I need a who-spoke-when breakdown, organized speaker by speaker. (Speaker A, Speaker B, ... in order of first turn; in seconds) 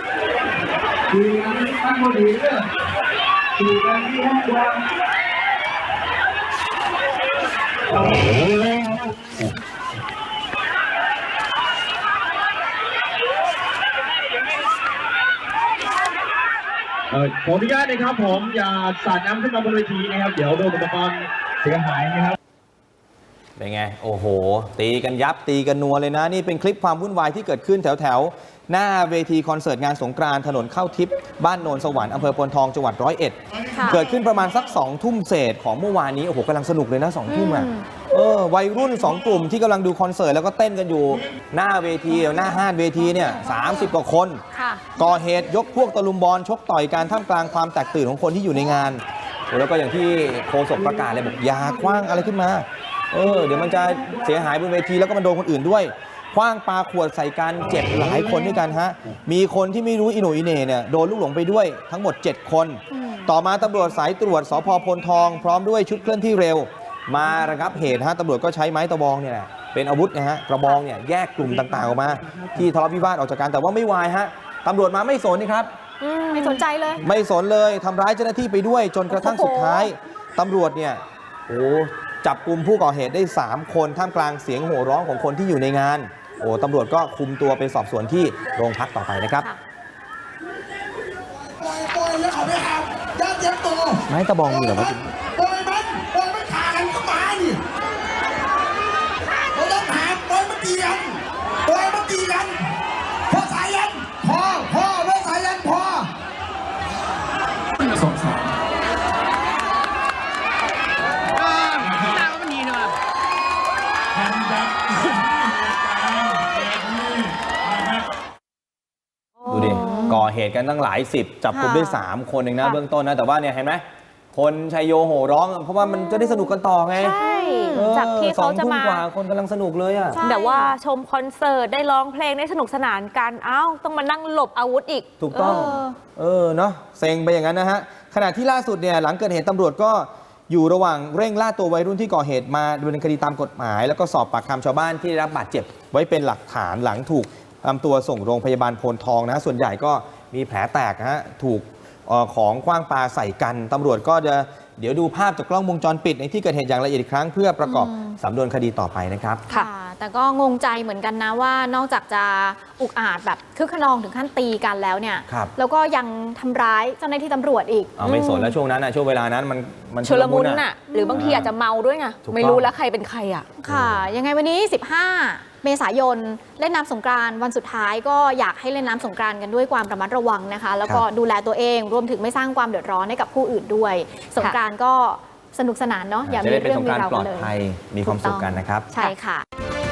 Speaker A: 1.1-2.5, 3.9-4.4
Speaker B: 17.1-22.4
Speaker C: 23.6-44.4, 45.0-75.7, 77.0-89.5, 94.1-95.1, 119.5-127.2, 127.7-130.2, 135.2-159.5, 165.3-165.5, 168.0-171.5, 172.2-172.7, 173.7-174.1, 186.2-188.9
Speaker D: 33.7-34.0, 37.3-37.9, 44.5-44.8, 62.9-63.3, 76.3-77.0, 119.6-120.2, 121.5-122.0, 127.1-127.9, 130.1-130.8, 135.4-136.0, 157.6-158.2, 159.5-168.0, 170.9-171.2, 173.6-187.5, 188.0-189.4
Speaker E: 76.0-76.6, 79.1-79.9, 119.4-120.2, 125.9-126.3, 127.0-129.1, 130.2-135.8, 168.1-168.5, 170.0-173.5
Speaker F: 91.5-97.6, 99.5-102.7, 103.3-106.1